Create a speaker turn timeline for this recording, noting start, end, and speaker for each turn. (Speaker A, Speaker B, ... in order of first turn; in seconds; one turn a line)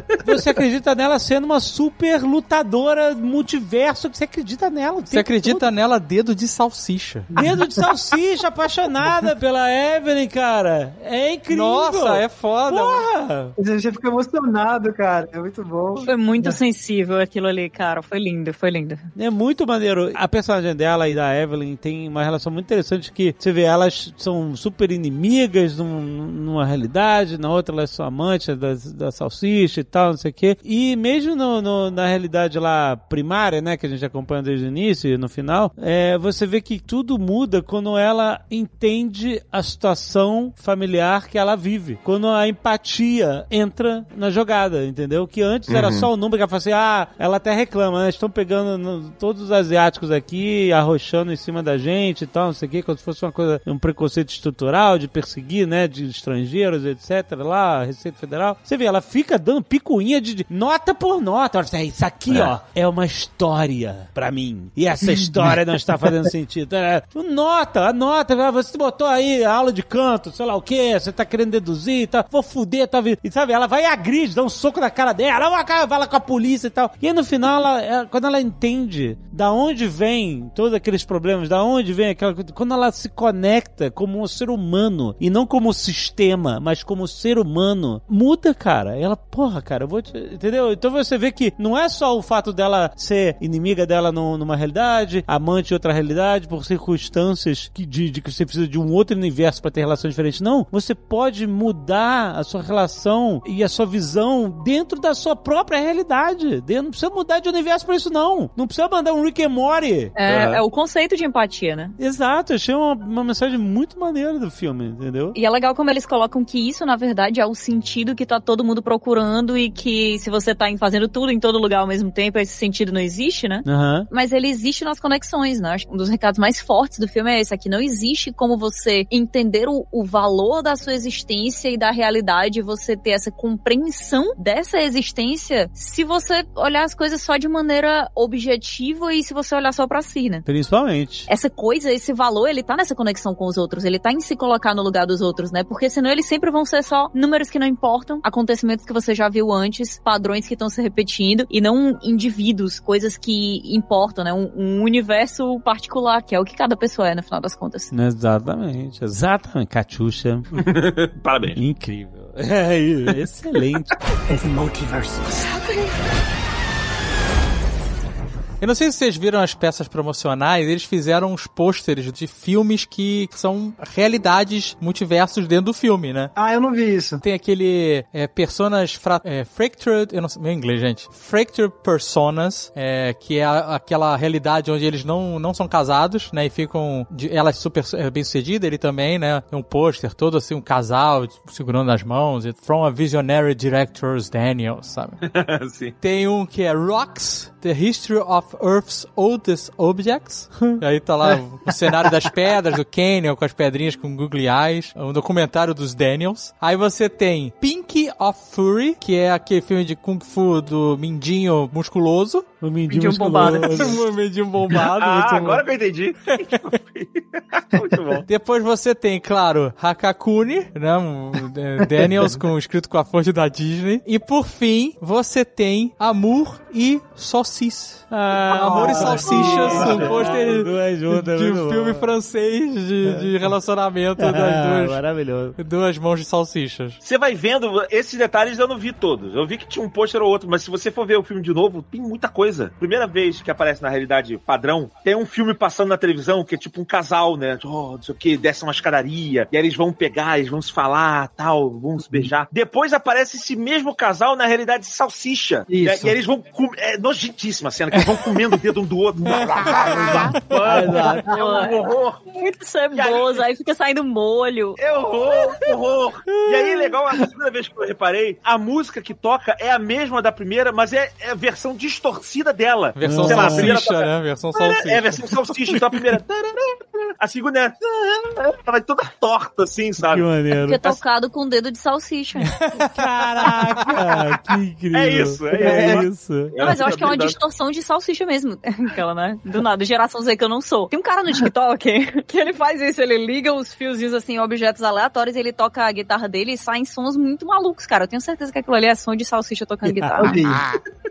Speaker A: 0.2-5.6
Speaker B: 5.1-7.3
Speaker A: 7.3-13.5
Speaker C: 7.4-7.7
Speaker B: 11.5-13.1
Speaker C: 13.6-16.6
Speaker D: 16.0-19.1
Speaker A: 19.1-110.1
Speaker E: 45.7-46.1
Speaker E: 62.3-62.5
Speaker D: 110.2-111.9
Speaker E: 110.3-110.6
Speaker A: 112.0-115.3
Speaker D: 115.3-140.4
Speaker A: 123.6-124.1
Speaker A: 140.4-141.3
Speaker D: 141.3-157.9
Speaker A: 157.9-160.5
Speaker E: 160.5-161.6
Speaker A: 161.5-165.8
Speaker B: 168.6-176.3
Speaker C: 176.3-177.2
Speaker B: 177.2-195.2
Speaker E: 195.2-195.9
Speaker B: 196.0-212.5
Speaker A: 212.6-214.0
Speaker D: 212.9-214.0
Speaker B: 213.4-215.6
Speaker E: 214.7-218.2
Speaker B: 218.3-235.0
Speaker A: 228.1-232.1
Speaker C: 229.4-229.9
Speaker A: 233.0-233.5
Speaker A: 234.2-235.5
Speaker B: 235.6-237.0
Speaker E: 237.0-262.3
Speaker C: 255.7-256.1
Speaker C: 259.9-261.3
Speaker A: 260.6-261.3
Speaker D: 261.3-261.8
Speaker D: 262.3-264.8
Speaker E: 262.9-263.4
Speaker E: 264.8-280.3
Speaker B: 273.0-275.2
Speaker A: 273.0-273.8
Speaker A: 280.0-280.9
Speaker D: 280.6-282.5
Speaker A: 282.6-286.5
Speaker B: 282.7-284.0
Speaker E: 284.9-287.4
Speaker C: 285.6-286.1
Speaker D: 286.6-300.4
Speaker A: 299.9-300.8
Speaker C: 300.2-300.6